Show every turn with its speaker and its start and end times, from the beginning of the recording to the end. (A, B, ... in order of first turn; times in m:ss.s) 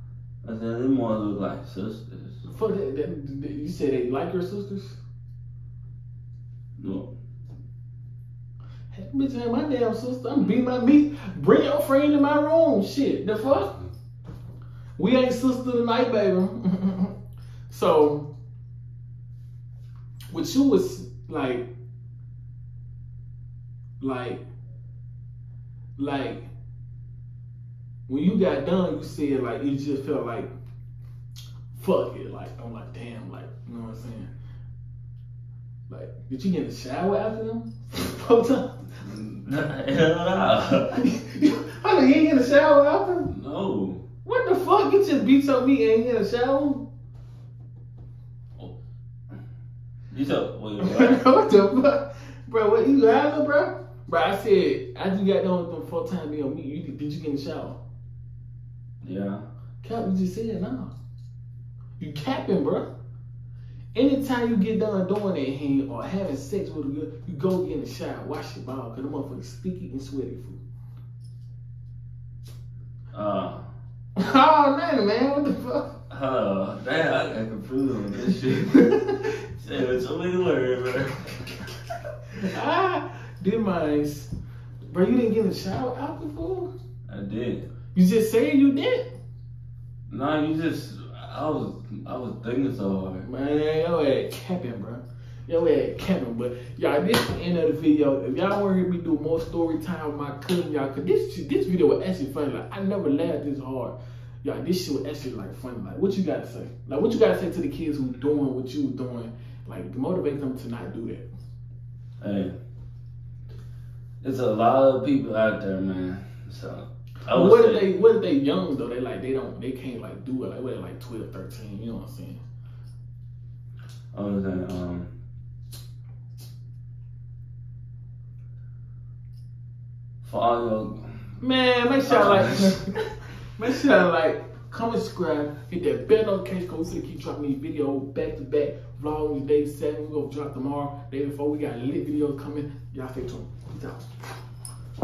0:00.4-0:02.4 A
0:02.5-0:05.0 B
0:06.8-0:07.1 A
0:08.9-0:13.8 B
0:15.0-0:17.1 B
0:17.7-0:18.3 B
0:20.3-0:21.6 B
0:24.0-0:24.4 B
0:26.0-0:26.5 B
0:28.1-0:30.5 B
0:31.7-0:34.3 B
0:35.9-0:38.7 B
0:39.0-0:41.0 A
0:41.0-0:43.3 B
0:43.3-0:44.0 A
0:44.2-0:46.8 B
0:50.1-0:51.2 A
0:50.8-0:57.8 B
0:59.0-0:59.4 A
0:59.8-1:00.9 B
1:02.0-1:02.9 B
1:03.9-1:10.6 B
1:13.1-1:13.7 A
1:14.2-1:16.0 B
1:16.1-1:21.6 A
1:18.8-1:19.1 B
1:22.4-1:24.3 B
1:24.9-1:26.7 B
1:27.1-1:27.7 A
1:27.9-1:29.1 B
1:30.1-1:33.3 A
1:33.2-1:51.2 B
1:52.2-1:52.5 A
1:54.2-1:57.9 A
1:57.3-2:02.4 B
2:04.1-2:05.1 A
2:10.2-2:11.2 A
2:11.4-2:12.9 B
2:12.0-2:12.8 A
2:13.5-2:24.1 B